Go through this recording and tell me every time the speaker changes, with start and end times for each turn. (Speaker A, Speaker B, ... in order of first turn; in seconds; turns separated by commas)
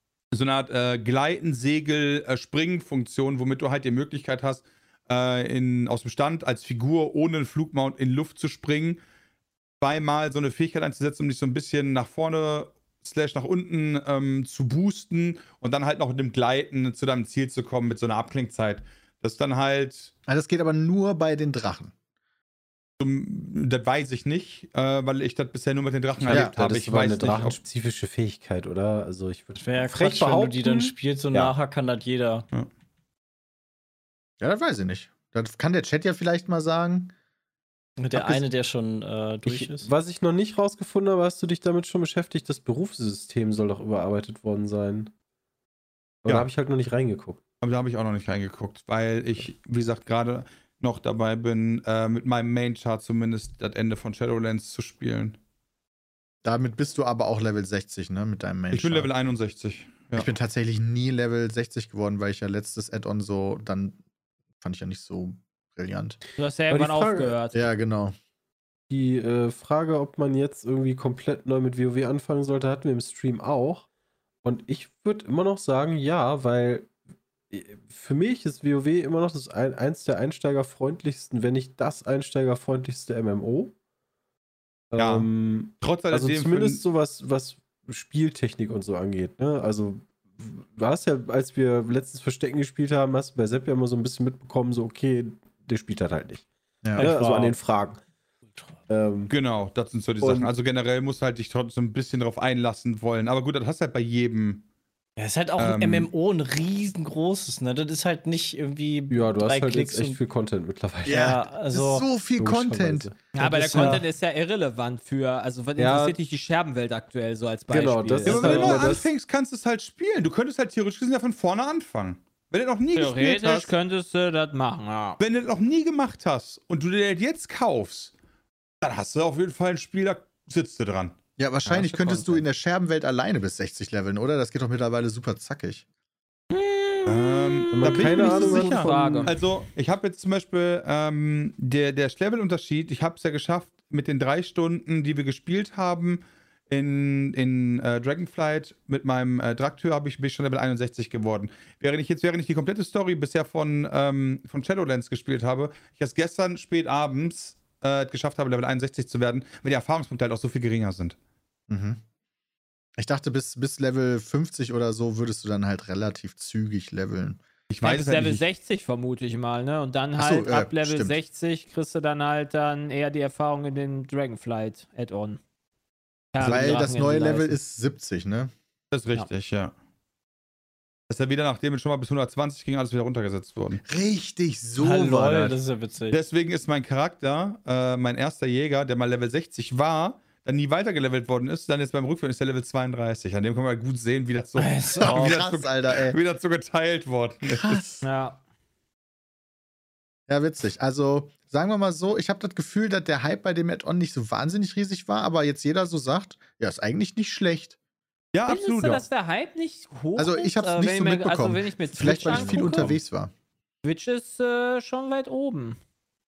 Speaker A: 0.3-9.0, Speaker A: 9.8-20.1, Speaker B: 20.3-21.9, Speaker A: 23.0-27.6, Speaker C: 26.2-31.5, Speaker D: 29.6-32.5, Speaker B: 34.4-37.1, Speaker D: 38.0-39.9, Speaker C: 38.1-38.4, Speaker C: 39.5-45.1, Speaker C: 46.2-47.4, Speaker A: 47.6-55.4, Speaker B: 56.4-59.1, Speaker A: 58.7-60.3, Speaker B: 60.1-64.0, Speaker B: 64.6-66.2, Speaker E: 66.4-67.6, Speaker C: 66.7-67.3, Speaker B: 67.5-68.1, Speaker C: 68.9-73.8, Speaker C: 74.4-76.9, Speaker C: 77.5-83.7, Speaker C: 84.9-96.4, Speaker A: 85.0-85.3, Speaker A: 85.8-86.8, Speaker B: 96.8-97.1, Speaker C: 97.0-98.0, Speaker D: 97.0-97.6, Speaker C: 98.9-99.3, Speaker A: 99.3-104.6, Speaker C: 100.2-100.5, Speaker D: 105.2-110.2, Speaker A: 105.6-106.1, Speaker C: 109.1-111.4, Speaker B: 111.0-113.1, Speaker D: 111.1-112.0, Speaker C: 112.4-114.0, Speaker E: 113.3-119.0, Speaker D: 113.4-114.0, Speaker C: 115.8-116.2, Speaker C: 117.7-119.1, Speaker A: 118.2-123.7, Speaker E: 122.9-125.2, Speaker A: 125.2-128.1, Speaker A: 128.8-131.2, Speaker B: 131.4-135.8, Speaker E: 131.6-132.4, Speaker E: 136.5-139.3, Speaker A: 137.1-161.2, Speaker C: 137.7-139.3, Speaker B: 161.7-162.0, Speaker B: 163.0-167.4, Speaker A: 167.7-168.4, Speaker E: 167.8-175.4, Speaker B: 170.2-171.2, Speaker E: 176.3-177.6, Speaker B: 176.4-178.5, Speaker A: 178.9-179.7, Speaker A: 181.1-183.8, Speaker B: 183.8-185.6, Speaker D: 184.8-186.2, Speaker A: 186.1-197.8, Speaker D: 194.6-195.4, Speaker B: 195.0-196.2, Speaker B: 197.4-198.0, Speaker E: 198.0-198.4, Speaker B: 200.3-207.8, Speaker A: 208.3-209.0, Speaker E: 208.4-212.9, Speaker B: 210.2-213.3, Speaker E: 213.8-215.8